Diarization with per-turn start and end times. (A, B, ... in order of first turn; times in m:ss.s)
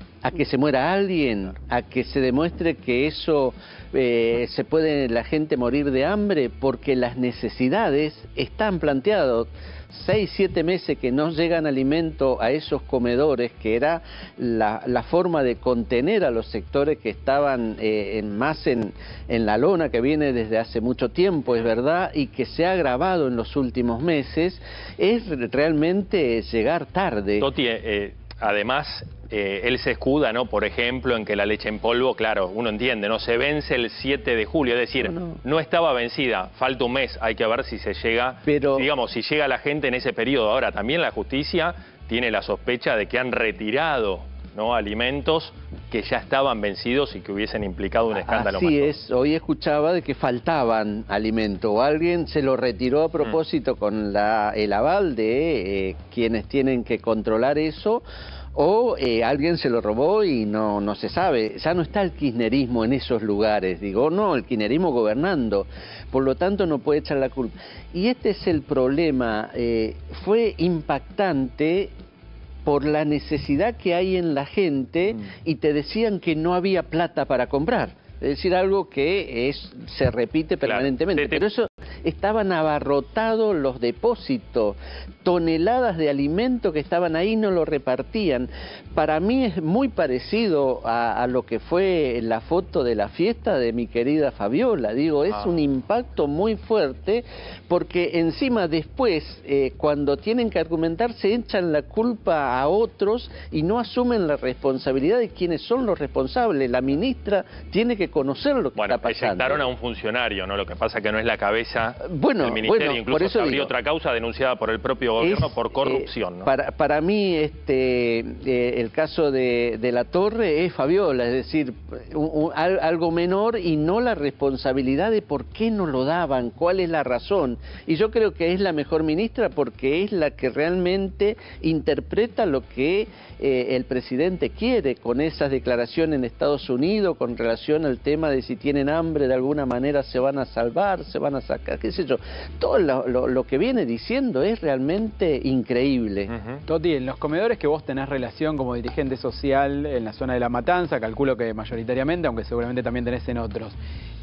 0:00.2-0:27.5 A
0:27.4-0:48.9 B
0:35.0-0:35.4 A
0:38.4-0:38.9 A
0:48.1-0:58.0 A
0:58.6-1:11.9 A
1:12.7-1:49.6 A
1:20.6-1:21.4 B
1:48.8-1:56.5 B
1:52.0-1:53.7 A
1:55.2-2:26.3 A
2:26.3-2:26.6 B
2:26.7-2:33.8 C